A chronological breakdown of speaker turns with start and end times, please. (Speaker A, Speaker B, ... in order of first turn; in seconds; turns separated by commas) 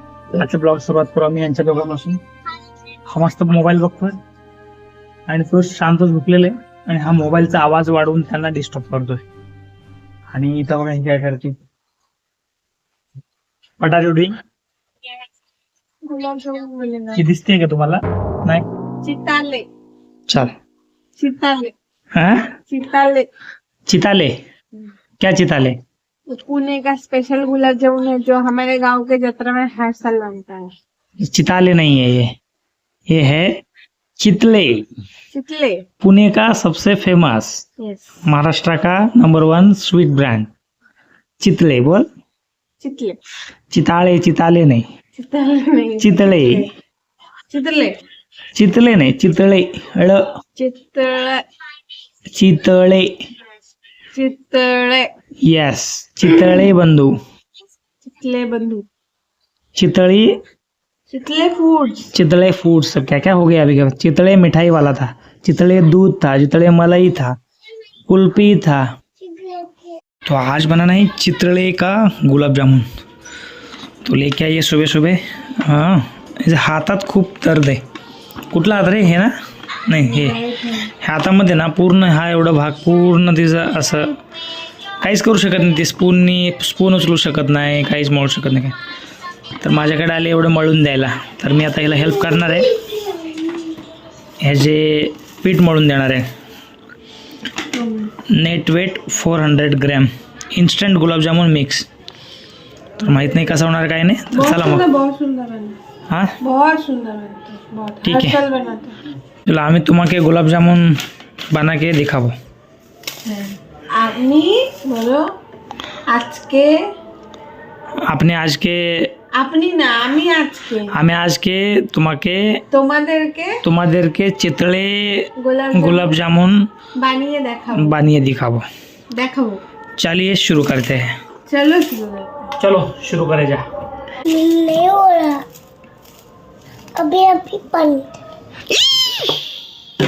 Speaker A: 0.3-2.2, Speaker A: 3.1-4.2, Speaker A: 5.3-9.2, Speaker A: 10.3-11.6, Speaker A: 13.8-14.4, Speaker B: 16.0-17.2, Speaker A: 17.1-18.7, Speaker B: 19.0-19.7, Speaker B: 21.2-21.7, Speaker A: 22.1-22.5, Speaker B: 22.7-23.3, Speaker A: 23.9-24.3, Speaker A: 25.2-25.8, Speaker B: 26.3-30.7, Speaker A: 31.2-32.3, Speaker A: 33.1-33.6, Speaker A: 34.2-34.9, Speaker B: 35.3-35.9, Speaker A: 36.0-37.6, Speaker B: 37.8-38.2, Speaker A: 38.2-40.5, Speaker A: 41.4-42.0, Speaker B: 42.8-43.2, Speaker A: 43.7-44.9, Speaker B: 45.2-46.7, Speaker A: 46.0-46.7, Speaker B: 47.5-48.0, Speaker A: 48.5-50.2, Speaker B: 50.5-51.4, Speaker A: 52.3-53.1, Speaker B: 54.1-55.1, Speaker A: 55.4-57.1, Speaker B: 58.0-58.9, Speaker A: 59.8-60.4, Speaker B: 61.1-62.1, Speaker A: 62.1-67.3, Speaker A: 68.1-68.9, Speaker C: 69.3-69.7, Speaker A: 70.2-72.9, Speaker A: 74.0-77.8, Speaker A: 78.5-79.3, Speaker A: 79.8-84.2, Speaker B: 80.0-80.9, Speaker A: 85.0-88.8, Speaker A: 89.6-92.8, Speaker A: 94.4-96.3, Speaker B: 97.7-98.1, Speaker A: 98.3-101.8, Speaker A: 103.0-104.8, Speaker B: 104.3-105.8, Speaker A: 106.1-106.3, Speaker B: 106.4-109.0, Speaker A: 108.0-108.4, Speaker A: 109.5-110.9, Speaker A: 111.5-112.3, Speaker B: 113.2-115.3, Speaker B: 116.1-116.7, Speaker A: 118.0-119.1, Speaker B: 119.3-120.9, Speaker A: 120.9-122.6, Speaker B: 122.7-123.6, Speaker A: 123.6-126.6, Speaker B: 125.4-126.1, Speaker B: 127.0-128.0, Speaker A: 127.7-128.7, Speaker B: 129.1-129.6, Speaker A: 130.0-131.1, Speaker B: 131.5-132.5, Speaker A: 132.6-133.6, Speaker C: 134.2-135.4, Speaker C: 136.9-138.2